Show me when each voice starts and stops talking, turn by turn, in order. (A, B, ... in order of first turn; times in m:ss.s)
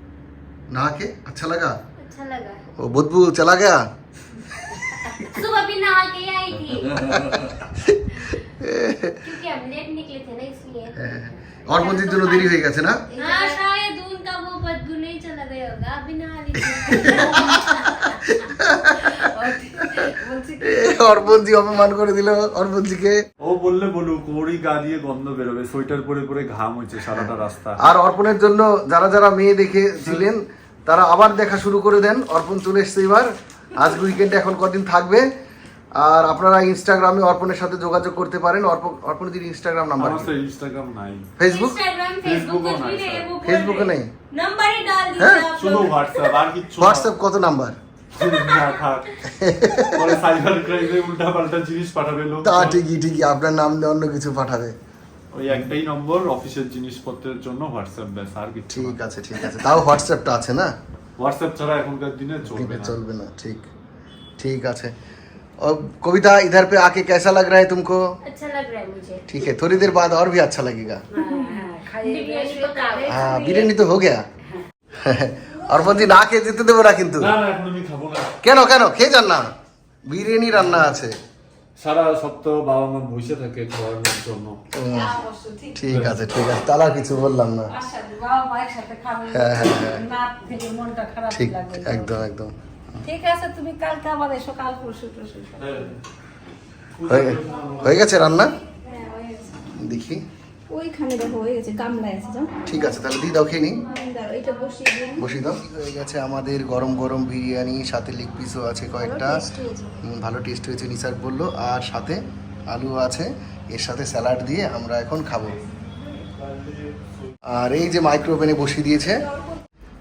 0:00.7-0:01.8 A
0:02.0-0:02.6 B
0:02.8-0:03.8 A
0:04.6-0:05.3 A
0:05.3-0:07.4 B
0:06.7-0:09.2 A
0:09.2-0:12.5 B
0:11.0-0:13.0 A
0:13.2-0:13.5 C
0:13.2-0:18.2 B
0:16.9-0:19.2 A
0:17.2-0:17.6 C
0:19.4-0:21.3 C
0:20.6-0:23.2 A
0:23.4-0:27.8 D
0:27.1-0:35.3 A
0:36.0-0:40.3 A
0:40.0-0:41.3 D
0:41.4-0:41.8 A
0:41.4-0:46.4 B
0:42.2-0:43.3 D
0:43.4-0:44.1 A
0:45.2-0:45.5 A
0:45.6-0:47.1 D
0:46.8-0:47.8 A
0:48.2-0:49.2 D
0:48.4-0:48.8 B
0:49.3-0:50.1 A
0:49.9-0:52.8 D
0:52.4-0:54.8 A
0:55.3-0:59.0 D
0:58.7-1:00.7 A
1:01.2-1:03.0 D
1:02.5-1:03.6 A
1:04.4-1:04.9 A
1:05.6-1:08.0 A
1:08.2-1:09.3 B
1:09.3-1:11.0 A
1:11.1-1:13.6 C
1:11.1-1:13.8 B
1:13.1-1:14.2 A
1:15.0-1:17.3 A
1:15.6-1:15.9 C
1:17.2-1:18.3 D
1:18.4-1:19.5 A
1:20.1-1:21.2 A
1:20.5-1:20.9 D
1:21.8-1:24.6 D
1:24.7-1:25.1 A
1:24.9-1:25.8 C
1:25.8-1:27.7 A
1:25.9-1:26.2 D
1:27.7-1:32.2 C
1:29.3-1:30.0 A
1:31.3-1:32.5 A
1:33.0-1:35.9 C
1:35.6-1:36.0 D
1:37.0-1:38.1 D
1:37.1-1:38.6 A
1:38.8-1:39.7 E
1:39.7-1:40.2 A
1:40.7-1:42.6 E
1:42.7-1:43.8 A
1:43.9-1:45.4 E
1:45.2-1:49.5 A
1:49.0-1:49.9 E
1:50.0-1:55.6 A
1:55.5-1:57.3 D
1:57.5-1:59.2 A
1:59.0-1:59.6 E